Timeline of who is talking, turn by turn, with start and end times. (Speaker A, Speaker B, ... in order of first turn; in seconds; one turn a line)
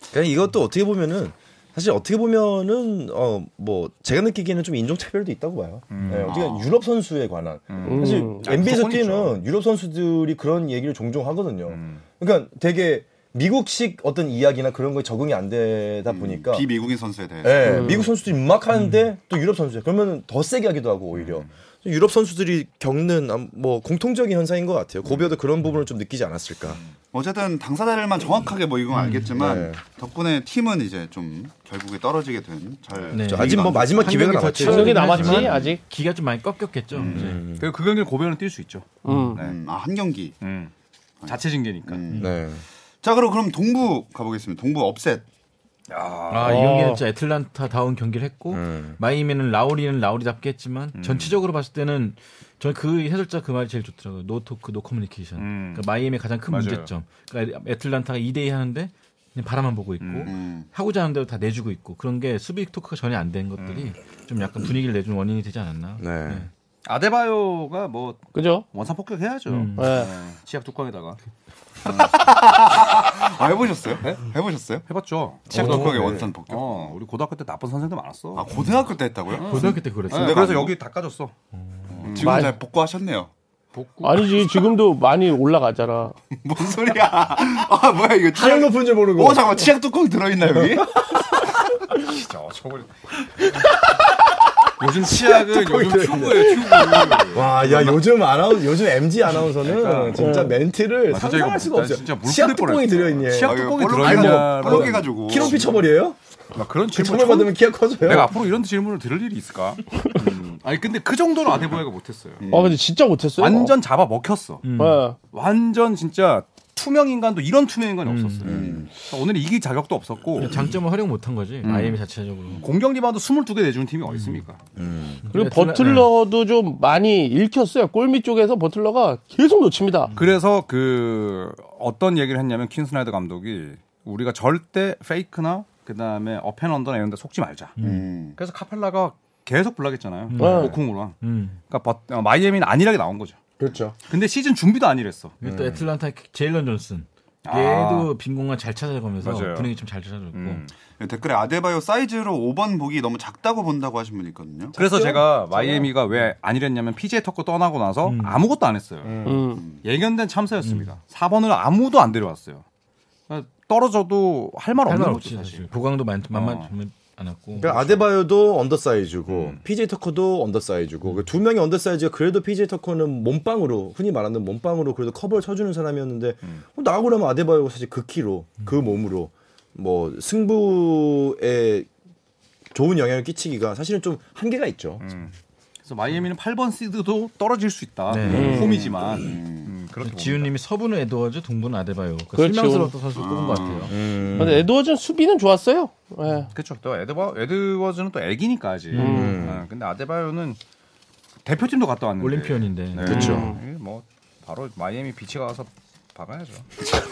Speaker A: 0.1-16.7
Speaker B: 5.9-6.4
Speaker C: 6.3-6.7
Speaker B: 7.7-9.4
Speaker D: 7.8-8.4
Speaker B: 11.7-12.0
Speaker C: 16.1-18.0
Speaker A: 17.4-26.8
Speaker D: 17.6-18.1
Speaker E: 18.7-19.0
Speaker B: 21.1-21.5
Speaker C: 27.1-34.2
Speaker E: 28.9-29.3
Speaker A: 29.4-29.8
Speaker E: 33.1-37.4
Speaker A: 33.3-35.5
Speaker D: 34.6-35.8
Speaker C: 36.9-37.4
Speaker A: 37.0-37.7
Speaker B: 37.6-39.6
Speaker D: 39.0-39.4
Speaker E: 39.1-39.4
Speaker C: 39.4-40.4
Speaker B: 40.4-40.7
Speaker C: 41.2-42.4
Speaker B: 41.3-42.0
Speaker A: 42.2-42.6
Speaker C: 43.0-45.2
Speaker B: 45.9-46.6
Speaker E: 46.3-66.5
Speaker D: 46.4-47.0
Speaker A: 48.5-49.0
Speaker B: 51.0-51.4
Speaker B: 55.4-55.9
Speaker B: 56.5-56.9
Speaker B: 60.0-60.3
Speaker C: 60.3-60.7
Speaker B: 63.6-63.9
Speaker A: 66.0-66.5
Speaker B: 66.8-71.2
Speaker D: 68.3-68.7
Speaker E: 69.5-70.0
Speaker D: 69.8-70.1
Speaker C: 71.8-74.8
Speaker B: 74.9-78.5
Speaker E: 75.5-76.1
Speaker C: 75.5-76.9
Speaker A: 75.6-76.3
Speaker C: 78.4-80.8
Speaker B: 79.3-81.3
Speaker E: 79.4-80.4
Speaker C: 81.9-83.3
Speaker B: 82.0-82.5
Speaker D: 82.2-82.5
Speaker B: 83.7-84.4
Speaker D: 84.0-86.2
Speaker C: 86.4-91.1
Speaker A: 88.3-89.5
Speaker B: 91.9-92.9
Speaker B: 94.8-98.0
Speaker A: 95.0-106.2
Speaker B: 99.5-100.5
Speaker B: 101.1-105.8
Speaker C: 103.4-105.6
Speaker B: 106.5-112.4
Speaker A: 106.9-108.3
Speaker C: 112.4-112.8
Speaker D: 112.5-113.7
Speaker B: 113.4-114.6
Speaker E: 114.6-115.0
Speaker D: 114.8-115.2
Speaker B: 115.3-120.5
Speaker E: 118.0-118.6
Speaker A: 118.5-118.9
Speaker C: 118.5-118.9
Speaker E: 120.4-122.6
Speaker B: 121.6-122.0
Speaker B: 122.6-124.6
Speaker E: 124.1-124.4
Speaker A: 124.8-125.3
Speaker E: 125.2-126.1
Speaker D: 125.3-130.1
Speaker B: 130.2-137.8
Speaker E: 137.8-138.1
Speaker C: 137.8-138.4
Speaker B: 138.3-141.2
Speaker E: 140.3-141.6
Speaker D: 140.4-140.7
Speaker B: 141.7-143.4
Speaker A: 143.6-144.0
Speaker B: 144.1-145.3
Speaker E: 145.4-150.6
Speaker A: 145.4-145.8
Speaker B: 147.4-148.1
Speaker B: 149.2-149.7
Speaker B: 150.3-150.7
Speaker C: 151.0-154.8
Speaker A: 154.7-155.9
Speaker B: 154.8-162.6
Speaker E: 158.1-158.4
Speaker A: 159.1-159.4
Speaker D: 159.2-159.6
Speaker C: 159.6-159.8
Speaker E: 160.6-160.9
Speaker B: 163.3-165.7
Speaker E: 164.9-168.1
Speaker B: 166.3-166.7
Speaker A: 167.6-181.9
Speaker B: 169.3-169.6
Speaker A: 182.7-185.0
Speaker B: 185.0-185.3
Speaker B: 185.8-190.5
Speaker E: 188.1-188.8
Speaker D: 188.3-188.8
Speaker C: 188.8-189.7
Speaker E: 190.0-194.6
Speaker D: 192.3-192.9
Speaker C: 193.1-193.9
Speaker A: 193.9-194.6
Speaker D: 194.4-196.5
Speaker B: 196.5-200.6
Speaker E: 198.9-199.4
Speaker D: 199.0-199.4
Speaker A: 199.0-199.6
Speaker B: 201.4-206.7
Speaker E: 202.2-203.4
Speaker A: 203.0-203.5
Speaker D: 203.1-203.6